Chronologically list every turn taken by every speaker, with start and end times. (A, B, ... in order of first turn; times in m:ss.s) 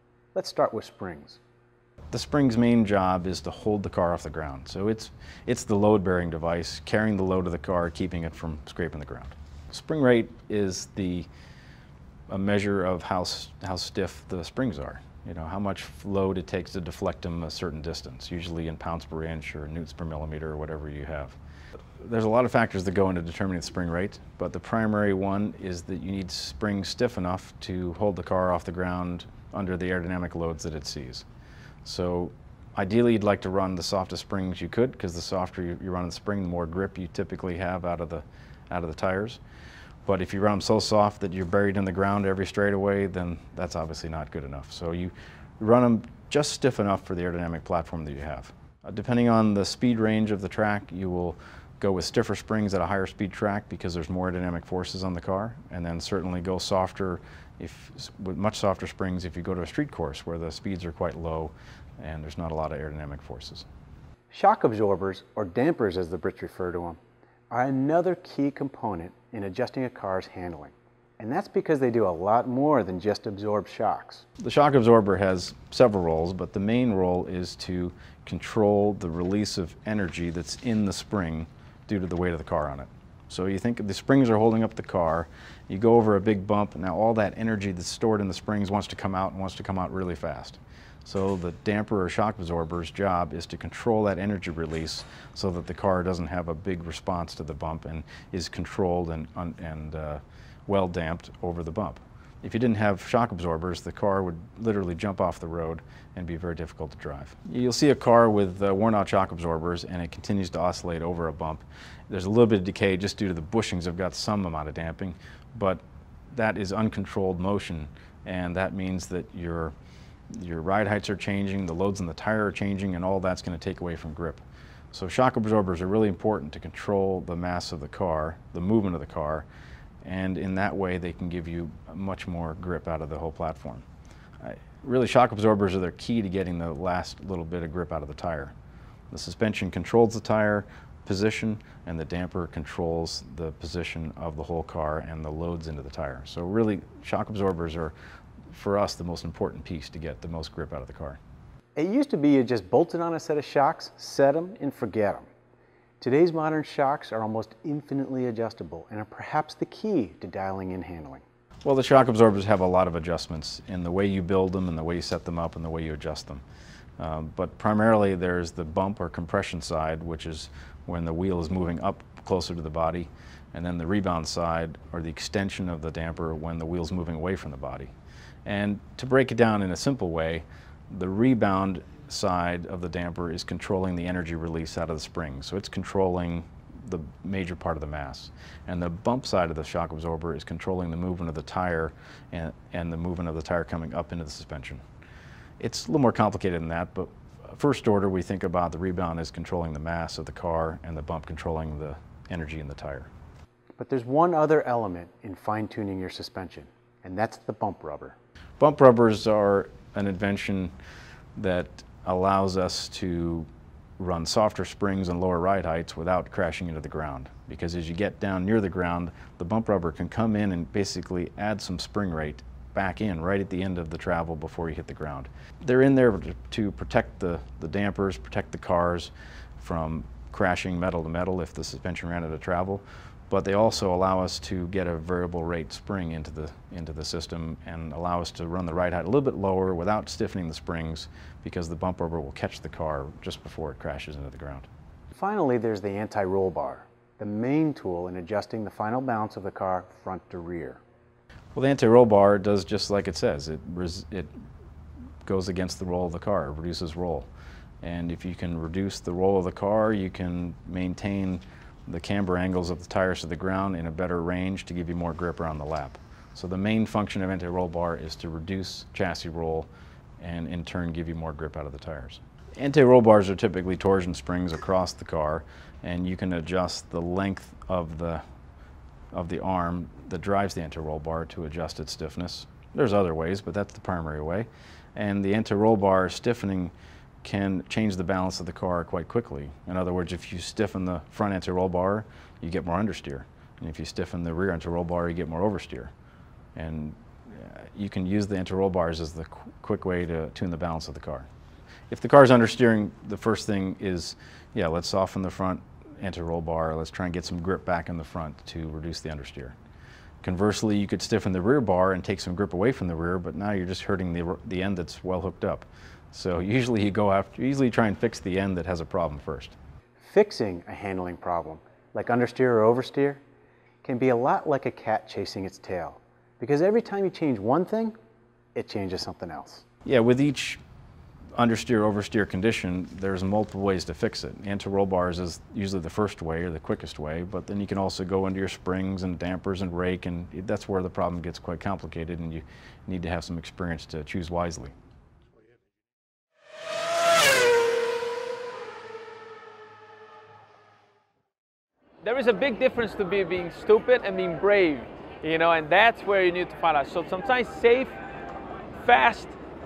0:00.3-0:01.4 A
0:02.1-0:11.3 B
0:12.3-0:21.4 B
0:22.0-0:31.2 B
0:31.8-0:39.4 B
0:40.0-1:03.6 B
1:04.3-1:07.0 A
1:07.5-1:14.2 A
1:14.4-1:59.7 B
2:00.3-2:09.4 B
2:10.0-2:13.8 B
2:14.4-2:18.5 B
2:19.1-2:27.9 B
2:28.5-2:31.2 B
2:31.8-2:35.2 A
2:36.0-2:41.2 A
2:41.6-2:46.4 B
2:47.0-2:57.9 B
2:58.4-3:14.8 B
3:15.6-3:23.1 B
3:23.8-3:28.2 A
3:28.6-3:30.7 B
3:31.4-3:33.5 B
3:34.0-4:04.7 B
4:05.1-4:10.8 A
4:11.5-4:14.3 B
4:15.2-4:17.3 B
4:17.8-4:38.2 B
4:39.1-4:55.9 B
4:56.5-5:01.3 B
5:01.9-5:09.5 B
5:10.2-5:19.5 B
5:20.0-5:23.2 A
5:23.8-5:28.0 A
5:28.5-5:29.6 A
5:29.8-5:30.6 B
5:31.4-5:44.7 B
5:52.0-5:57.9 C
5:58.8-5:59.3 C